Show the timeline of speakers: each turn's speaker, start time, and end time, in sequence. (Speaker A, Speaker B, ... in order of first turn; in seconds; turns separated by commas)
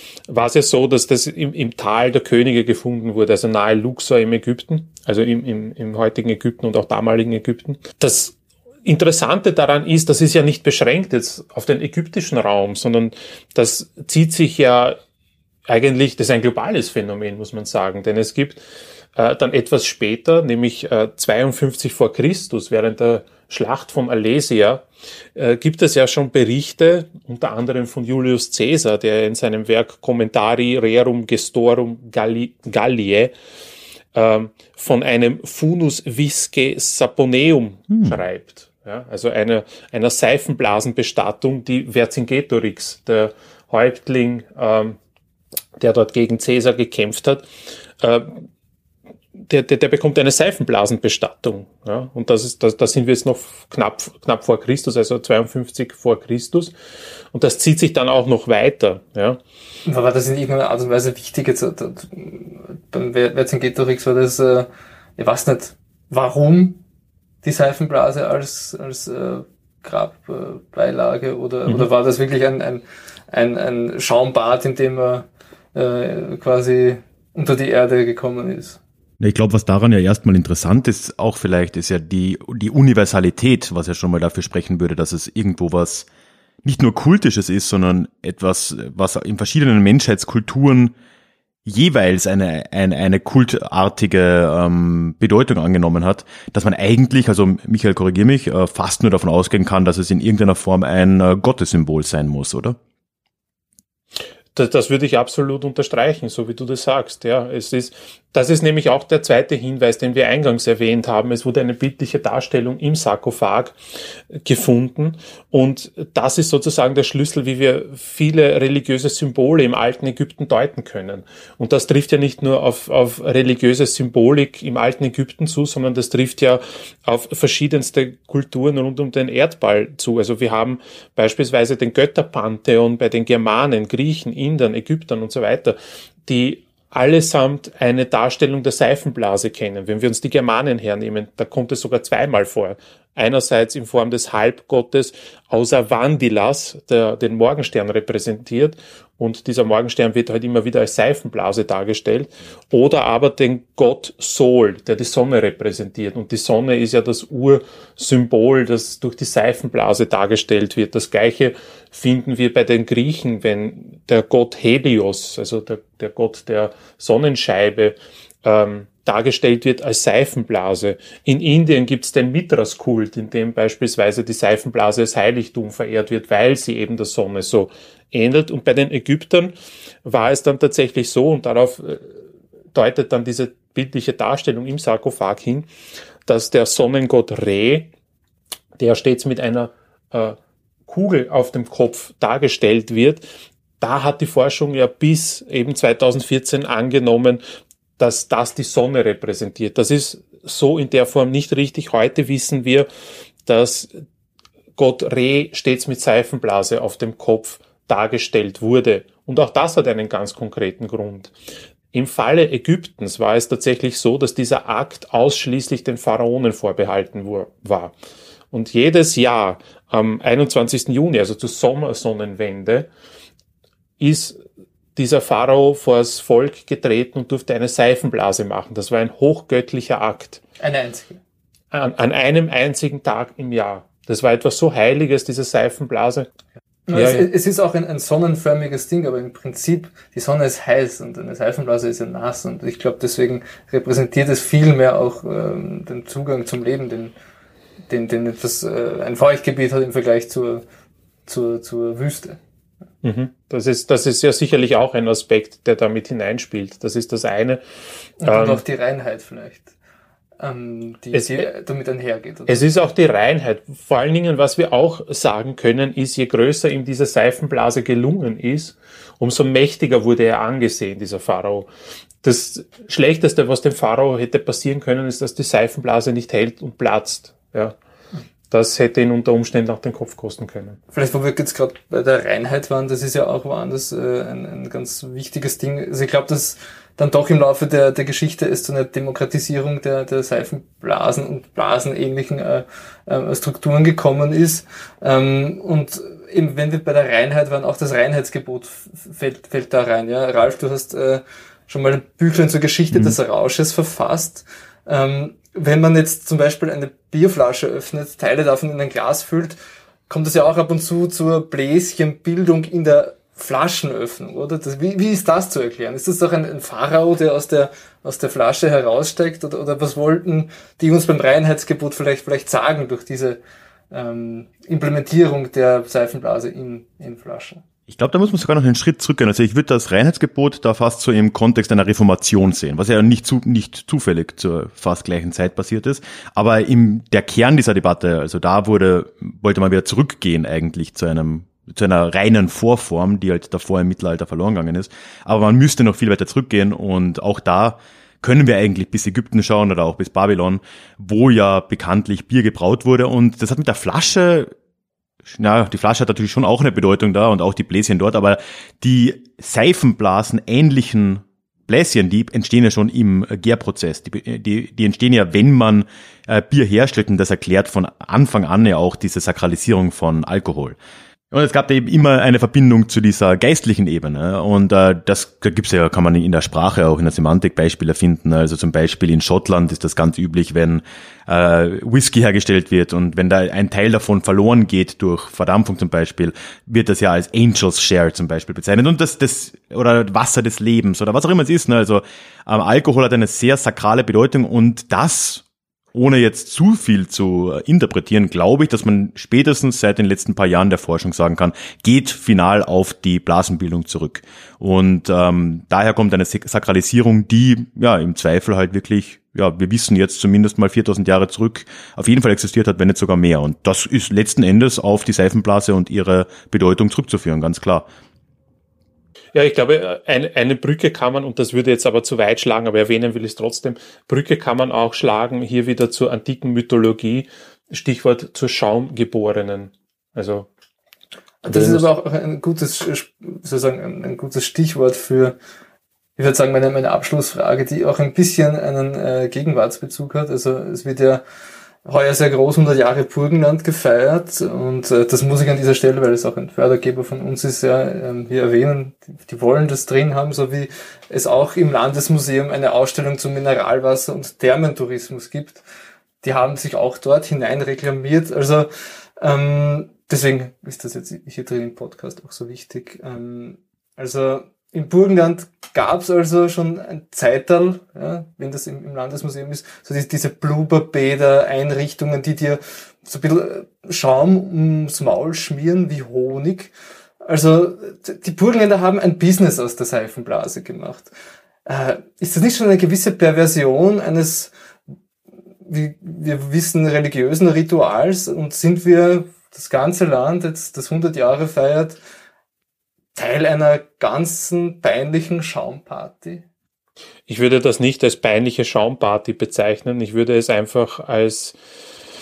Speaker A: 0.3-15.0, Speaker A: 15.7-18.6, Speaker A: 19.1-24.9, Speaker A: 25.4-33.3, Speaker A: 34.1-45.0, Speaker B: 37.9-38.2, Speaker A: 45.8-47.5, Speaker A: 48.0-48.5, Speaker A: 49.4-56.7, Speaker A: 57.3-59.4, Speaker C: 59.9-66.8, Speaker C: 67.4-78.8, Speaker B: 79.2-86.1, Speaker B: 86.6-90.9, Speaker B: 91.6-102.8, Speaker A: 104.5-113.8, Speaker A: 114.3-179.5, Speaker A: 180.0-182.1, Speaker A: 182.7-185.7, Speaker A: 186.2-187.9, Speaker A: 188.8-190.4, Speaker A: 190.9-193.2, Speaker A: 193.8-197.4, Speaker A: 198.0-202.9, Speaker A: 203.4-204.0, Speaker A: 204.8-211.3, Speaker A: 211.9-217.9, Speaker A: 218.5-222.9, Speaker A: 224.0-224.4, Speaker A: 224.9-230.4, Speaker C: 230.6-231.2, Speaker A: 231.7-236.3, Speaker C: 236.9-247.1, Speaker A: 236.9-237.3, Speaker C: 247.9-250.6, Speaker C: 251.2-252.4, Speaker A: 253.0-257.6, Speaker C: 258.2-259.7, Speaker A: 258.2-258.6, Speaker C: 260.4-262.6, Speaker A: 261.1-261.5, Speaker A: 262.5-271.7, Speaker A: 272.2-277.8, Speaker A: 278.5-280.8, Speaker C: 280.9-309.6, Speaker C: 310.1-323.4, Speaker C: 323.9-327.6, Speaker B: 327.9-354.5, Speaker B: 355.3-370.8, Speaker B: 371.3-417.9, Speaker A: 419.3-430.5, Speaker C: 431.4-435.4, Speaker A: 431.4-431.9, Speaker C: 436.2-441.2, Speaker C: 441.9-455.6, Speaker C: 456.2-458.7, Speaker C: 459.2-476.7, Speaker C: 477.2-481.1, Speaker C: 481.6-484.5, Speaker C: 485.6-492.0, Speaker C: 493.1-496.4, Speaker A: 497.3-501.6